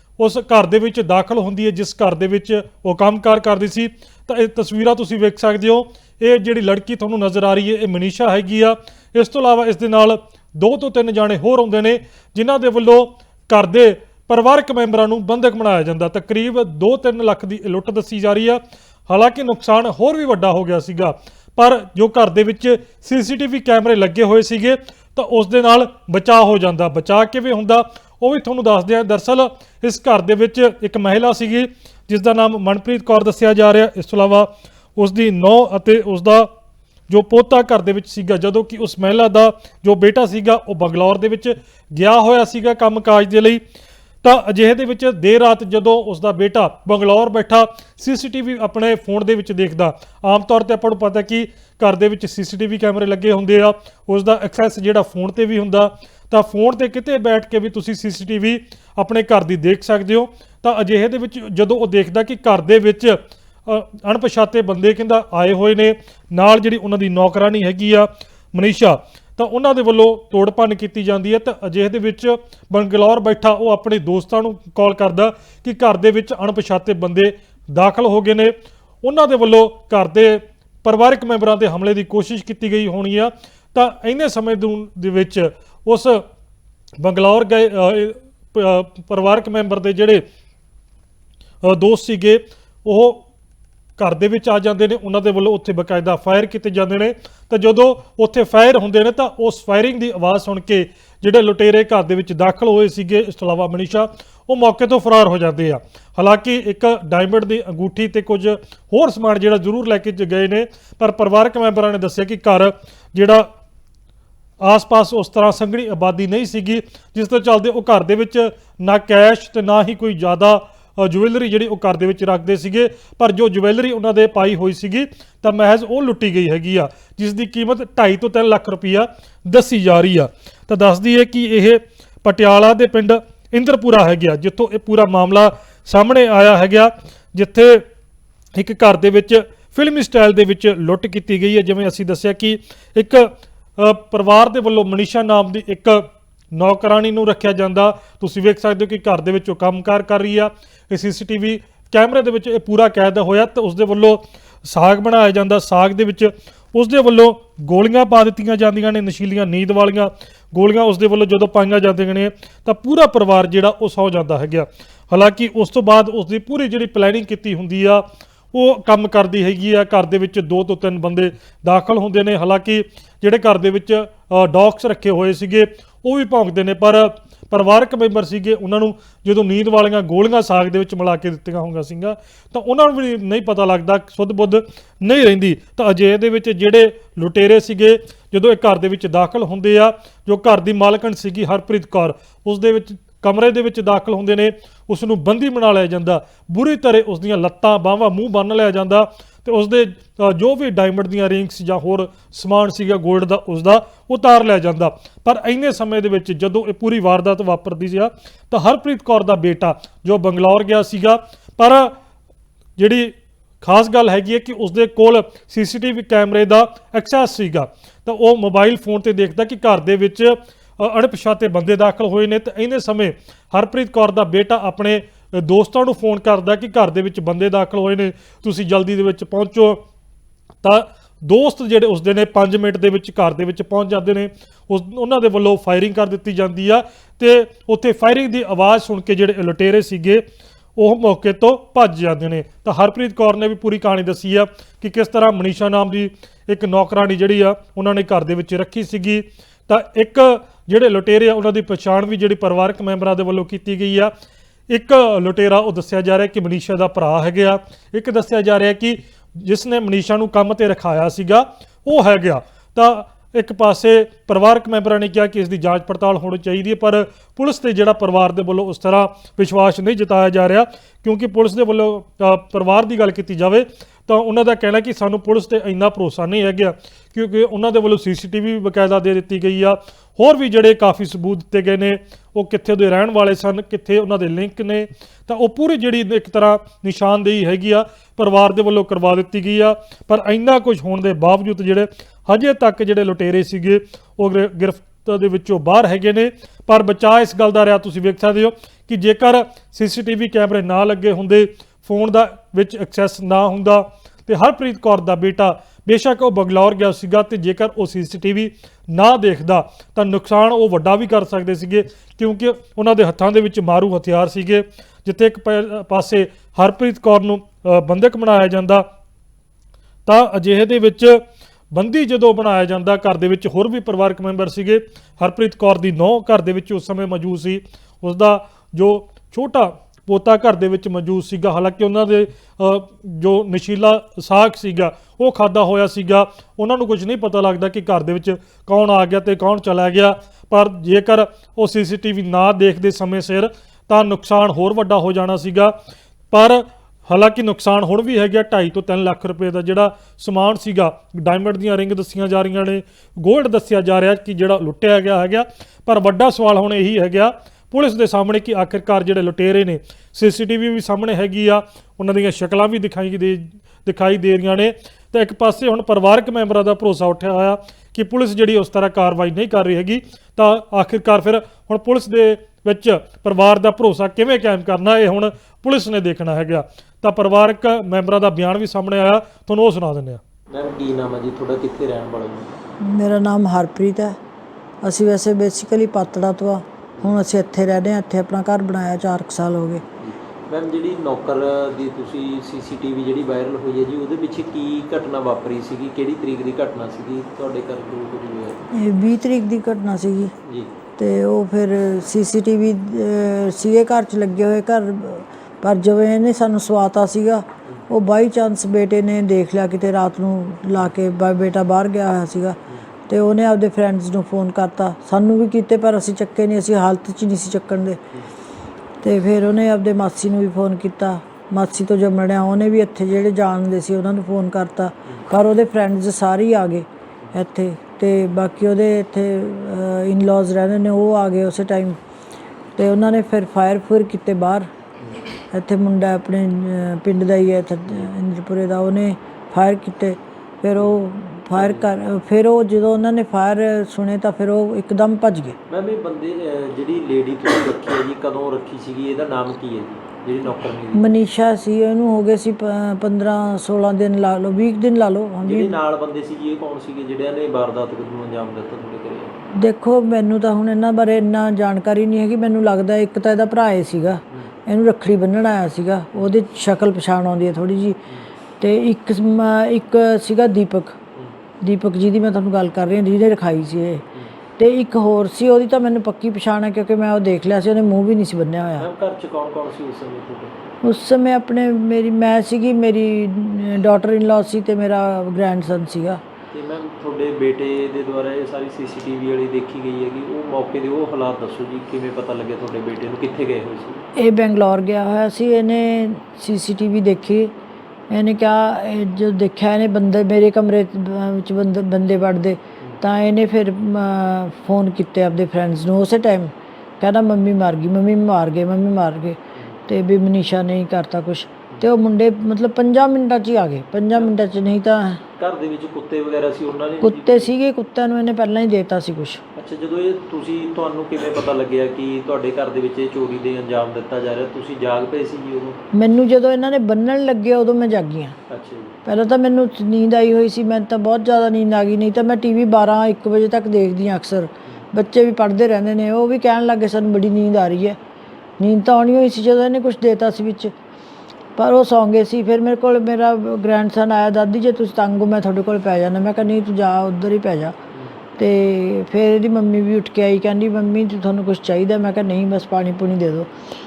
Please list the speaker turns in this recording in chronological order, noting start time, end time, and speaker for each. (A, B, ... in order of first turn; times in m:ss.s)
0:00.2-0:36.5 A
0:37.1-0:43.6 A
0:44.2-1:26.2 A
1:27.0-1:30.2 A
1:31.6-1:33.2 A
1:34.0-1:53.5 A
1:54.6-2:17.8 A
2:18.5-3:31.9 A
3:32.8-3:49.8 A
3:50.6-4:00.2 A
4:00.8-4:14.1 A
4:14.7-5:18.8 A
5:20.0-5:21.2 A
5:21.7-5:45.7 A
5:46.3-6:20.2 A
6:20.5-6:22.6 B
6:22.8-6:24.2 C
6:24.8-6:29.8 C
6:30.0-6:38.6 B
6:38.7-6:40.3 C
6:40.4-6:40.7 B
6:41.0-6:52.6 C
6:53.1-6:58.0 C
6:59.0-7:12.0 C
7:12.8-7:14.7 C
7:15.5-7:25.6 C
7:21.5-7:21.9 B
7:25.7-7:31.1 B
7:30.9-7:35.7 C
7:35.4-7:39.3 B
7:39.5-7:48.0 C
7:48.6-7:51.0 C
7:51.6-7:54.0 C
7:54.6-7:58.9 C
7:58.8-8:00.6 B
8:00.8-8:06.2 C
8:06.5-8:14.0 B
8:14.2-8:17.5 C
8:18.1-8:35.2 C
8:35.4-8:37.5 B
8:37.0-8:39.4 C
8:39.5-8:45.8 B
8:45.9-8:48.4 C
8:48.5-8:48.9 B
8:49.0-8:58.0 C
8:58.6-9:00.7 C
9:01.6-9:07.8 C
9:08.4-9:13.5 C